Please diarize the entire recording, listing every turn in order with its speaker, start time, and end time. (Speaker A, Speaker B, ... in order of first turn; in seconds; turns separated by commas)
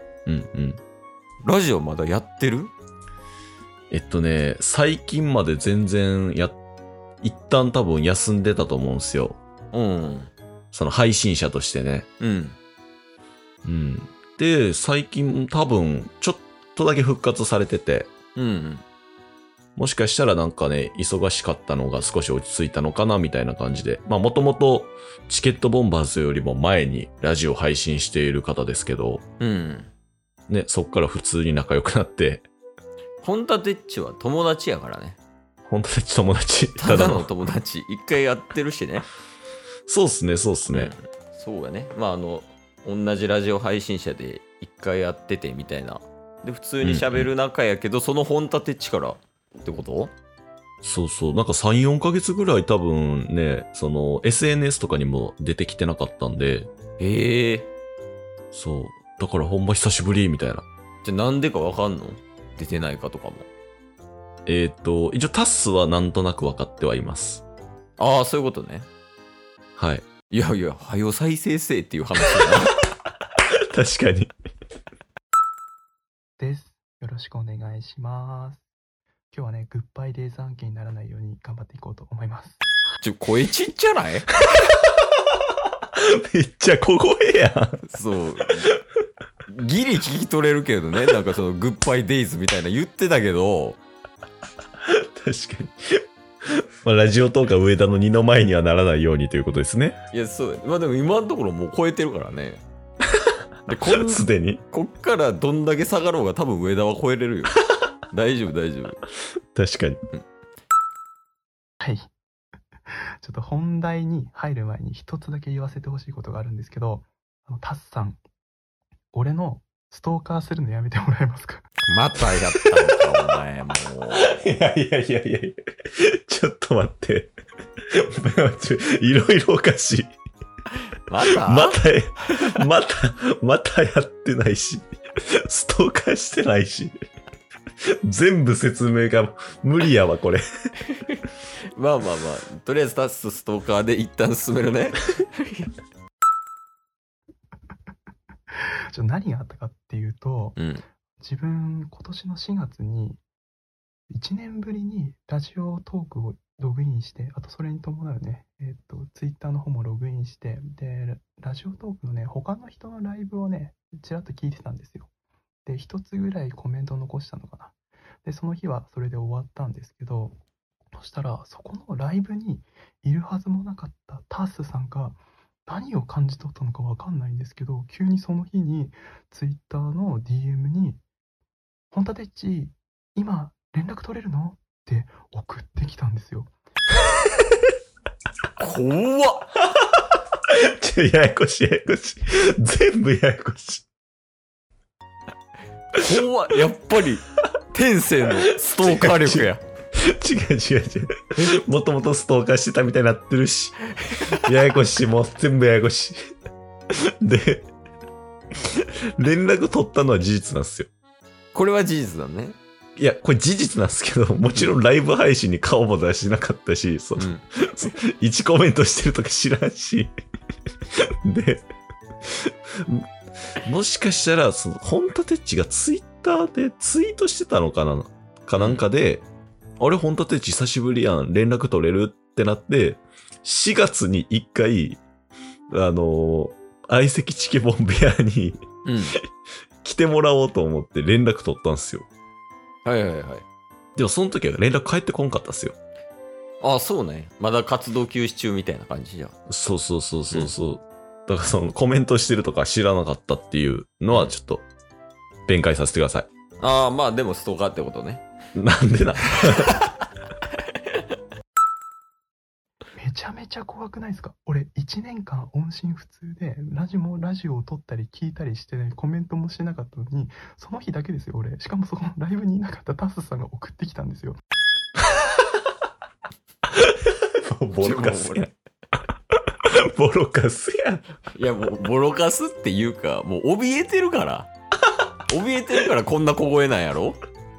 Speaker A: 0.2-0.8, Speaker B: 1.4-2.7, Speaker A: 3.9-6.6, Speaker A: 7.2-9.4, Speaker B: 9.7-10.3, Speaker A: 10.7-12.1, Speaker B: 12.2-12.6, Speaker A: 13.6-18.1, Speaker B: 18.4-18.8, Speaker A: 19.8-29.2, Speaker B: 29.4-29.9, Speaker A: 30.5-32.5, Speaker B: 33.2-35.2, Speaker A: 35.7-37.3, Speaker B: 36.8-39.0, Speaker A: 39.9-40.9, Speaker B: 40.7-50.1, Speaker A: 46.8-47.3, Speaker A: 50.8-56.7, Speaker B: 57.0-57.7, Speaker A: 58.5-60.6, Speaker B: 61.0-63.5, Speaker A: 64.5-67.4, Speaker B: 68.0-68.9, Speaker A: 69.8-70.0, Speaker B: 70.3-72.8, Speaker A: 73.7-74.3, Speaker C: 76.4-78.7, Speaker C: 79.3-82.6, Speaker B: 83.0-84.3, Speaker A: 86.0-87.8, Speaker B: 87.9-88.7, Speaker B: 89.5-93.8, Speaker A: 94.8-100.0, Speaker B: 100.1-102.6, Speaker B: 103.7-109.0, Speaker A: 103.8-104.6, Speaker A: 109.5-110.0, Speaker C: 111.8-112.1, Speaker C: 113.2-118.2, Speaker C: 119.1-121.6, Speaker B: 121.9-124.3, Speaker A: 124.2-127.3, Speaker A: 127.9-130.1, Speaker B: 131.1-131.8, Speaker A: 131.3-136.9, Speaker A: 138.0-140.4, Speaker B: 141.7-145.7, Speaker C: 148.9-150.6, Speaker B: 150.6-150.8, Speaker C: 151.2-153.2, Speaker C: 154.1-165.1, Speaker C: 165.6-170.4, Speaker C: 170.9-181.0, Speaker C: 181.9-186.5, Speaker B: 188.6-189.5, Speaker A: 190.5-193.8, Speaker B: 195.9-199.6, Speaker A: 198.8-206.2, Speaker A: 206.9-207.7, Speaker A: 208.6-210.9, Speaker B: 211.5-212.6, Speaker A: 213.0-220.1, Speaker B: 217.2-217.4, Speaker A: 220.9-221.6, Speaker A: 222.2-223.1, Speaker A: 223.6-229.2, Speaker B: 228.6-228.8, Speaker A: 229.8-235.0, Speaker A: 235.7-238.6, Speaker B: 238.8-239.2, Speaker A: 239.8-242.1, Speaker B: 242.8-243.4, Speaker A: 243.9-245.8, Speaker B: 246.6-249.3, Speaker A: 249.5-254.7, Speaker A: 255.5-256.3, Speaker B: 256.6-258.2, Speaker A: 258.5-259.8, Speaker C: 262.9-274.4, Speaker A: 276.7-278.5, Speaker B: 277.8-278.5, Speaker A: 279.5-281.0, Speaker B: 281.3-284.5, Speaker B: 285.3-287.2